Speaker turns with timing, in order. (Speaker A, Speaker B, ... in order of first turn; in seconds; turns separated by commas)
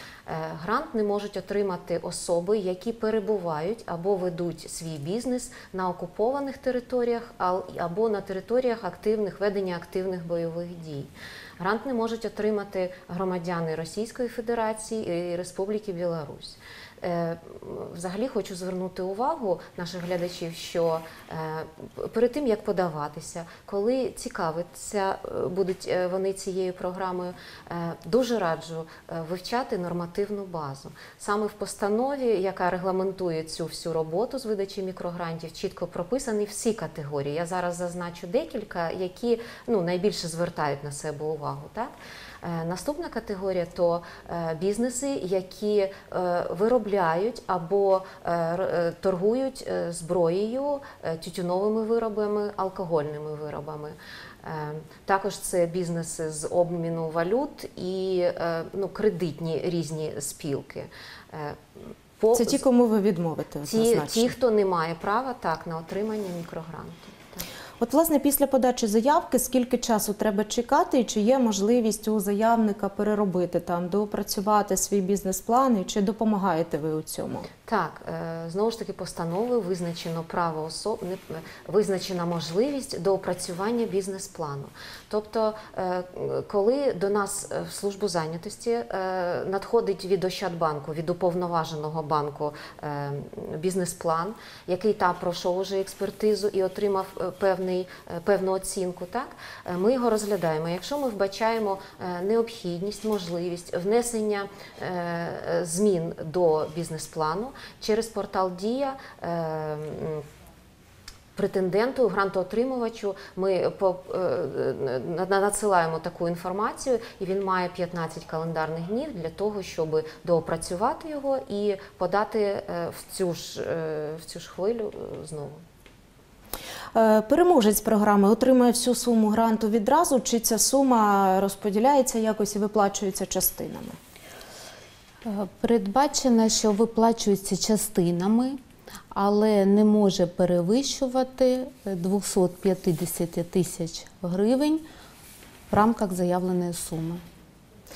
Speaker A: 0.3-62.6, Speaker B: 62.3-64.3, Speaker A: 63.6-67.4, Speaker B: 67.8-77.5, Speaker A: 77.7-110.2, Speaker A: 111.3-125.6, Speaker B: 126.9-134.0, Speaker C: 135.2-138.6, Speaker C: 139.1-144.8, Speaker C: 145.7-147.2